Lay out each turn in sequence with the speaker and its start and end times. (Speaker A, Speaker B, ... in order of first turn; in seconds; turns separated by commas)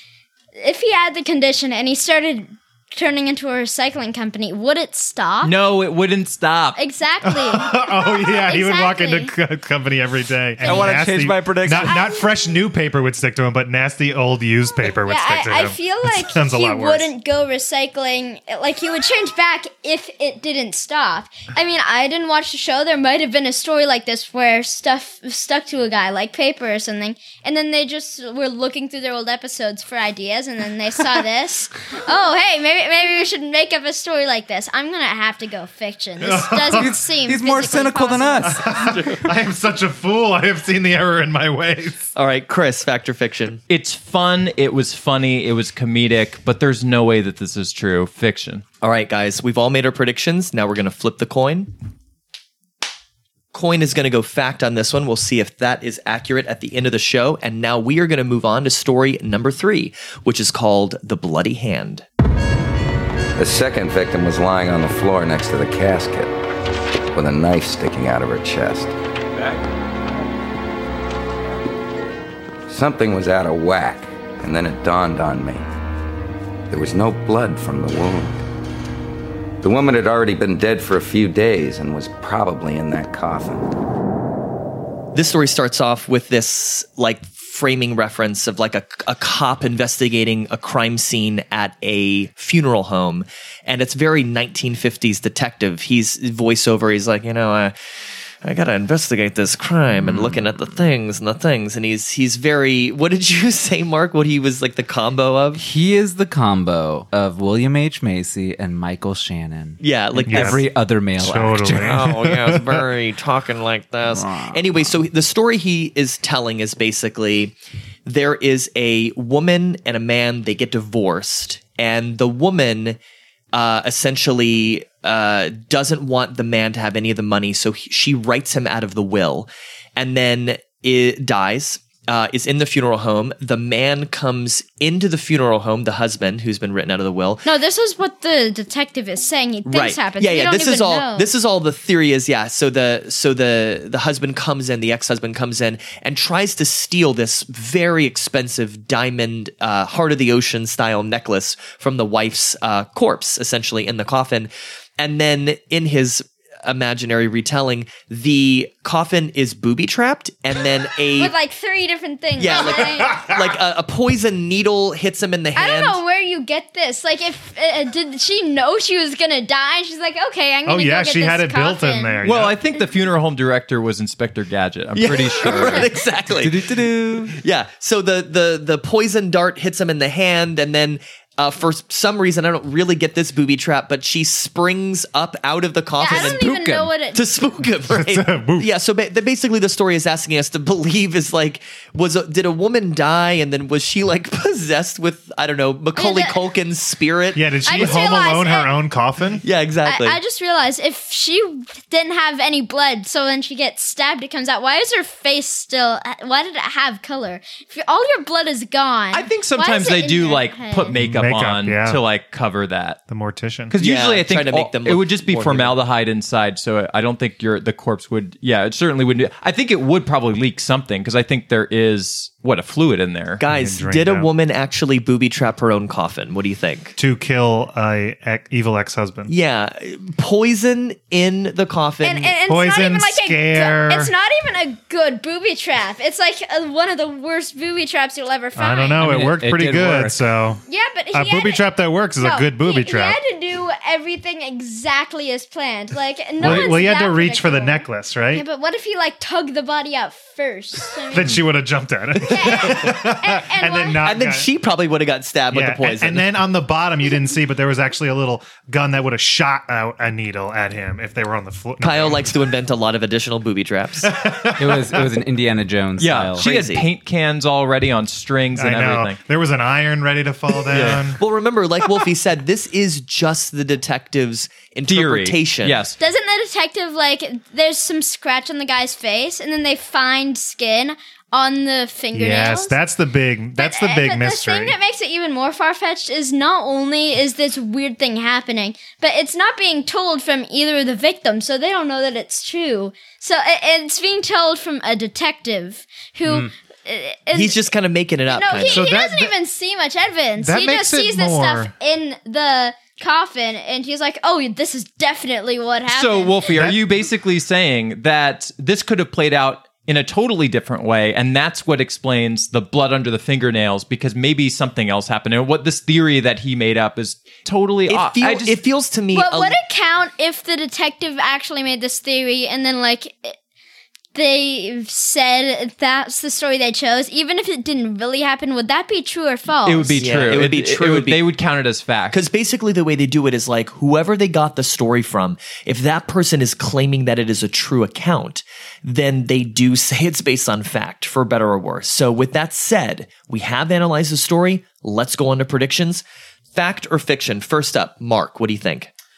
Speaker A: 0.6-5.5, Speaker B: 5.4-6.8, Speaker A: 6.8-9.3, Speaker C: 7.2-17.1, Speaker A: 10.6-11.1, Speaker D: 10.6-12.0, Speaker A: 11.7-12.2, Speaker A: 15.1-38.7, Speaker C: 36.2-37.0, Speaker D: 36.7-39.0, Speaker C: 38.5-42.1, Speaker E: 39.0-39.3, Speaker E: 42.1-43.6, Speaker B: 43.7-48.6, Speaker E: 48.8-51.7, Speaker E: 53.5-62.0, Speaker F: 63.4-66.3, Speaker F: 67.1-68.9, Speaker F: 72.7-75.7, Speaker F: 76.7-78.4, Speaker F: 79.6-83.7, Speaker E: 85.1-97.7, Speaker E: 98.4-105.6, Speaker D: 100.0-100.4, Speaker D: 105.6-112.0, Speaker E: 109.8-110.7, Speaker C: 110.3-112.8, Speaker E: 111.7-117.5, Speaker D: 114.1-115.0, Speaker E: 118.0-123.0, Speaker E: 123.5-137.4, Speaker A: 137.4-141.3, Speaker E: 139.7-161.3, Speaker A: 161.2-163.1, Speaker E: 162.4-166.0, Speaker C: 163.1-163.5, Speaker A: 165.5-172.2, Speaker C: 170.7-172.6, Speaker B: 172.2-175.9, Speaker E: 174.9-186.4, Speaker D: 176.3-177.3, Speaker A: 186.0-187.2, Speaker D: 186.1-186.9, Speaker E: 187.1-198.0, Speaker C: 187.9-188.7, Speaker A: 195.9-196.4, Speaker C: 197.3-199.4, Speaker A: 197.6-198.7, Speaker E: 199.4-200.2, Speaker A: 199.8-210.9, Speaker B: 209.1-213.0, Speaker C: 210.9-212.0, Speaker C: 213.1-213.8, Speaker B: 213.7-223.4, Speaker E: 213.8-215.8, Speaker E: 223.4-226.9, Speaker C: 223.5-224.3, Speaker C: 227.0-229.3, Speaker E: 229.3-232.4, Speaker A: 232.0-239.1, Speaker C: 232.4-234.1, Speaker C: 238.5-240.6, Speaker D: 239.0-240.2, Speaker A: 240.7-251.4, Speaker C: 241.1-243.2, Speaker C: 246.4-248.4, Speaker C: 251.1-254.5, Speaker A: 252.3-254.0, Speaker E: 252.3-252.8, Speaker E: 254.0-256.2, Speaker C: 255.5-262.3, Speaker E: 261.8-264.2, Speaker C: 264.0-265.0, Speaker D: 264.6-266.5, Speaker B: 266.0-269.2, Speaker E: 266.4-266.9, Speaker C: 268.5-271.2, Speaker B: 270.7-271.1, Speaker E: 271.1-275.8, Speaker B: 274.9-275.9, Speaker A: 276.0-282.8, Speaker C: 282.1-284.8, Speaker A: 283.6-297.6, Speaker E: 297.3-298.9, Speaker A: 298.3-306.3, Speaker C: 298.6-299.3, Speaker C: 300.4-301.7, Speaker B: 305.9-318.6, Speaker C: 306.5-307.1, Speaker E: 317.9-319.6, Speaker A: 319.1-323.4, Speaker A: 324.1-330.1, Speaker B: 329.6-332.2, Speaker E: 330.0-331.2, Speaker E: 332.1-346.0, Speaker E: 346.5-348.9